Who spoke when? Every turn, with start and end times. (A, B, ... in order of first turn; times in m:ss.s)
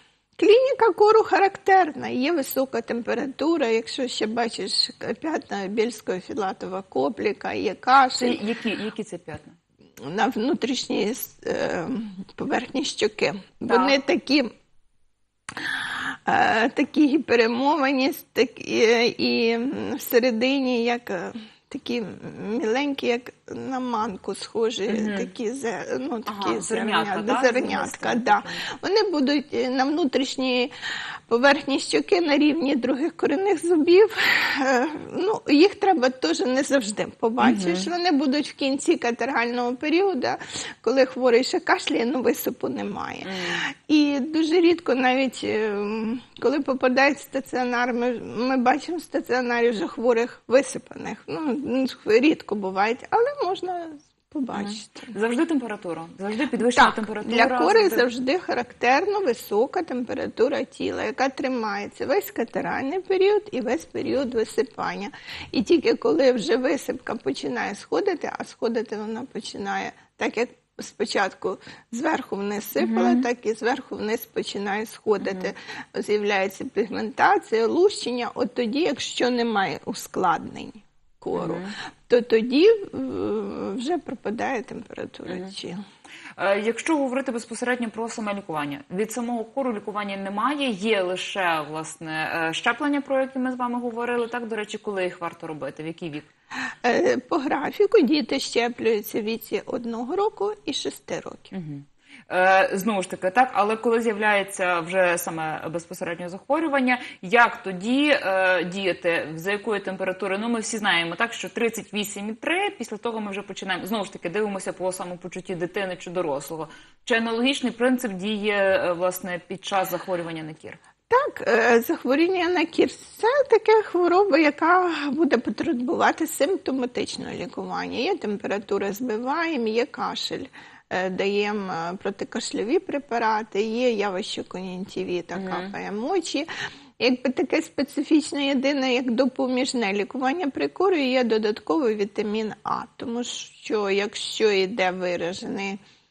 0:00.4-0:08.4 A
0:08.2-0:09.6 B
0:10.0-0:14.5 A
0:13.7-0:14.0 B
0:15.6-0:30.7 A
0:24.9-0:25.3 B
0:26.3-0:28.6 B
0:31.3-0:55.1 A
0:37.4-0:37.9 B
0:43.2-0:43.7 B
0:54.5-0:58.1 B
0:56.6-1:25.8 A
1:12.8-1:13.3 B
1:15.2-1:15.5 B
1:21.3-1:21.7 B
1:25.3-1:25.5 B
1:26.4-1:36.3 B
1:36.8-1:41.5 A
1:41.5-2:00.8 B
2:01.1-2:16.5 A
2:15.4-2:15.7 B
2:17.0-2:25.8 A